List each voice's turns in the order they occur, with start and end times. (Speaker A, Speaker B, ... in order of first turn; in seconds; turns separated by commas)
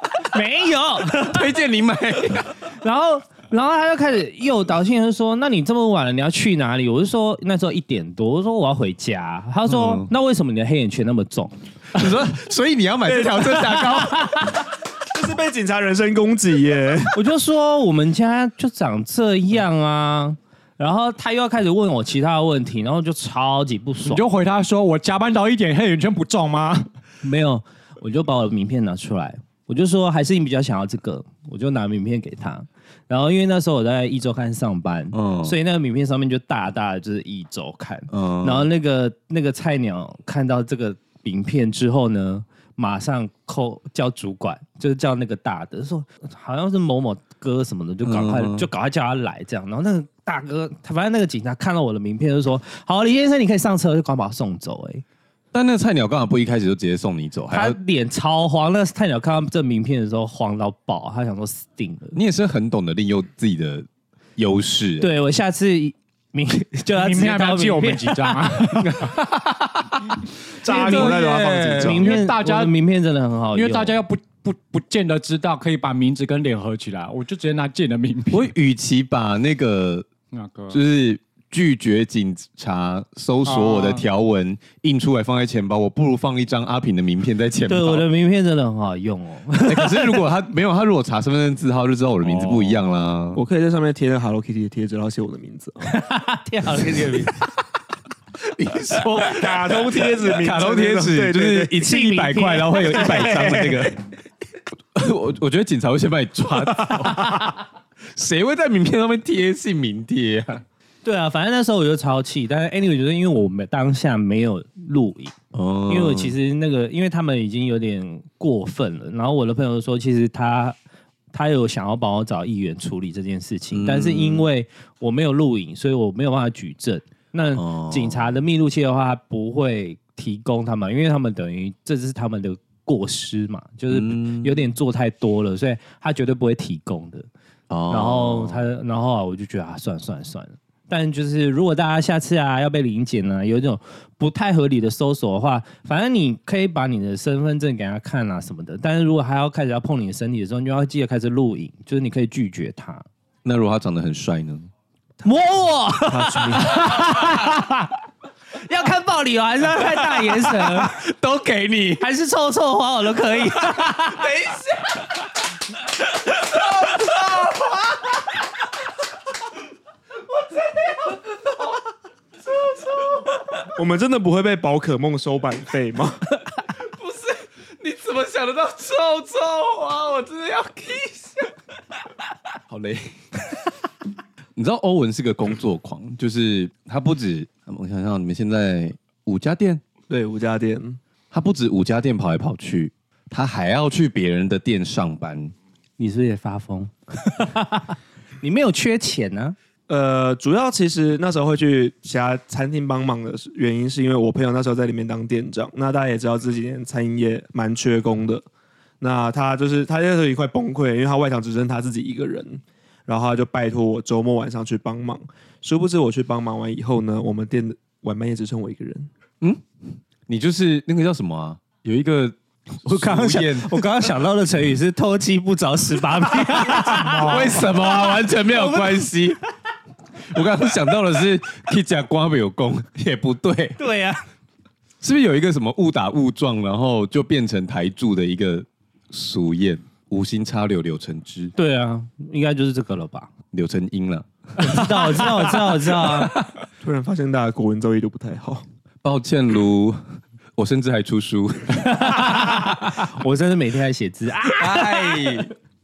Speaker A: 0.2-1.5, Speaker B: 1.1-2.5, Speaker A: 2.8-11.6, Speaker B: 9.7-10.1, Speaker B: 11.9-14.6, Speaker C: 13.1-13.7, Speaker A: 13.7-14.5, Speaker C: 15.1-17.2, Speaker A: 17.1-24.3, Speaker D: 24.0-26.9, Speaker A: 27.2-55.0, Speaker B: 35.1-35.5, Speaker B: 38.1-38.7, Speaker B: 48.0-48.7, Speaker B: 55.5-57.8, Speaker A: 57.5-62.2, Speaker B: 62.1-65.1, Speaker A: 65.0-68.4, Speaker D: 67.0-69.1, Speaker B: 68.8-72.0, Speaker C: 70.6-72.0, Speaker A: 70.7-74.0, Speaker D: 71.9-72.7, Speaker D: 73.5-78.5, Speaker B: 78.3-80.1, Speaker D: 80.3-80.8, Speaker B: 80.7-88.1, Speaker D: 83.5-84.0, Speaker A: 87.7-90.2, Speaker B: 89.6-93.4, Speaker D: 92.2-92.8, Speaker C: 93.3-95.9, Speaker A: 95.8-97.4, Speaker B: 98.4-104.0, Speaker C: 99.2-101.9, Speaker A: 101.7-103.5, Speaker C: 102.9-103.9, Speaker B: 105.0-107.5, Speaker B: 108.1-110.6, Speaker A: 111.0-115.3, Speaker B: 115.5-116.4, Speaker A: 115.9-120.8, Speaker A: 121.3-137.3, Speaker B: 123.7-124.5, Speaker B: 127.5-128.4, Speaker B: 133.9-134.6, Speaker B: 137.7-138.7, Speaker A: 137.9-153.1, Speaker B: 153.4-154.7, Speaker A: 155.2-157.9, Speaker C: 156.1-156.8, Speaker B: 157.0-157.3, Speaker A: 158.6-161.0, Speaker B: 159.8-162.0, Speaker A: 162.0-164.3, Speaker B: 164.2-165.1, Speaker B: 166.4-167.9, Speaker B: 170.6-171.5, Speaker B: 172.5-173.2, Speaker C: 173.7-176.2, Speaker B: 176.7-181.5, Speaker B: 182.7-183.1, Speaker B: 184.6-189.8, Speaker C: 190.1-191.0, Speaker B: 191.3-195.5, Speaker A: 196.0-199.6, Speaker C: 199.9-208.4, Speaker C: 209.0-219.1, Speaker B: 219.4-223.9, Speaker A: 222.9-229.3, Speaker B: 226.6-229.4, Speaker B: 230.2-233.8, Speaker A: 233.8-234.2, Speaker B: 235.0-241.5, Speaker A: 241.6-243.3, Speaker B: 243.5-246.5, Speaker A: 244.6-246.4, Speaker C: 246.8-248.6, Speaker B: 249.0-250.0, Speaker B: 250.6-253.0, Speaker A: 251.8-255.4, Speaker B: 254.6-255.5